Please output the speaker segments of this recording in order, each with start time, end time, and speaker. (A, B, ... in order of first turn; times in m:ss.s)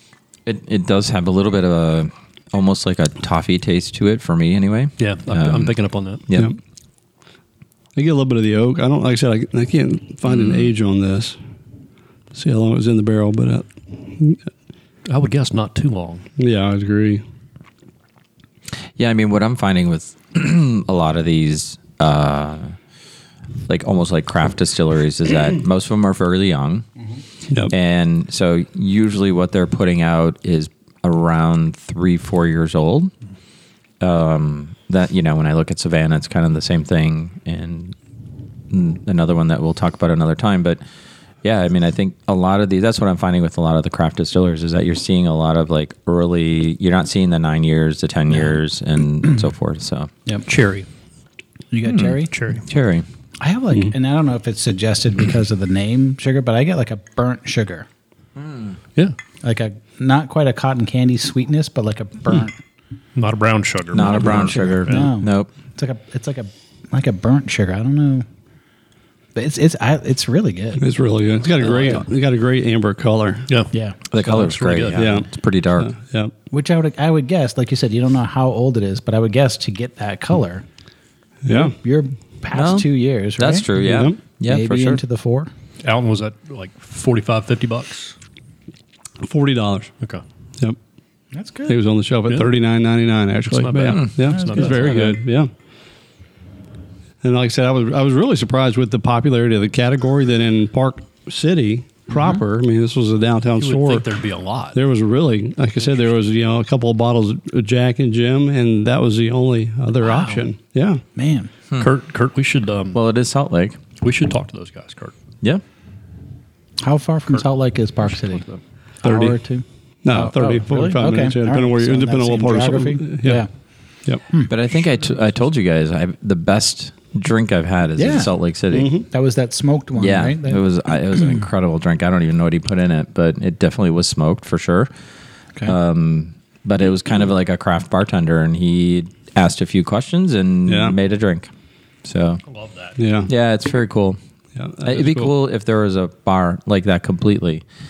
0:00.4-0:05.7 A
0:05.0-0:06.2 B
0:06.3-0:06.5 A
0:07.9-0:11.4 C
0:10.2-0:10.7 A
0:12.3-0:14.4 C
0:15.0-0:16.3 B
0:16.4-0:17.2 C
0:19.0-0:22.8 A
0:23.7-0:26.8 A
0:27.7-0:33.1 A
0:34.0-0:38.0 A
0:38.7-0:40.8 A
0:41.4-0:50.1 A
0:50.5-0:50.9 B
0:51.7-0:52.3 D
0:51.8-0:53.0 A
0:52.3-0:52.6 B
0:53.4-0:57.9 D
0:59.4-1:02.6 D
1:03.2-1:05.1 B
1:03.9-1:05.5 A
1:04.0-1:08.2 D
1:09.3-1:10.8 D
1:10.8-1:13.5 C
1:11.6-1:12.0 D
1:13.5-1:15.1 B
1:13.7-1:14.0 D
1:14.1-1:15.9 A
1:14.9-1:15.2 C
1:15.8-1:16.3 C
1:16.5-1:20.6 D
1:21.4-1:21.7 C
1:21.5-1:23.7 D
1:22.5-1:25.0 A
1:23.8-1:24.2 C
1:24.4-1:25.5 D
1:25.8-1:28.1 B
1:29.2-1:29.9 C
1:31.3-1:31.8 D
1:31.7-1:35.5 C
1:33.5-1:35.2 B
1:34.2-1:35.1 D
1:37.2-1:44.0 C
1:42.1-1:42.4 D
1:43.6-1:44.8 B
1:44.7-1:51.0 C
1:50.0-1:50.4 B
1:51.2-1:51.5 D
1:51.8-1:53.0 B
1:52.9-1:53.8 A
1:54.0-1:55.1 B
1:56.8-1:58.4 D
1:58.0-1:58.6 B
1:59.0-2:03.5 D
1:59.0-1:59.4 C
2:00.0-2:03.4 C
2:04.5-2:08.9 A
2:08.0-2:08.3 D
2:08.7-2:09.0 C
2:09.1-2:10.6 D
2:10.0-2:14.9 A
2:15.6-2:21.5 A
2:20.7-2:21.0 C
2:22.0-2:22.4 A
2:22.4-2:23.0 B
2:23.0-2:23.3 C
2:23.3-2:24.2 A
2:24.6-2:25.3 C
2:24.8-2:27.6 A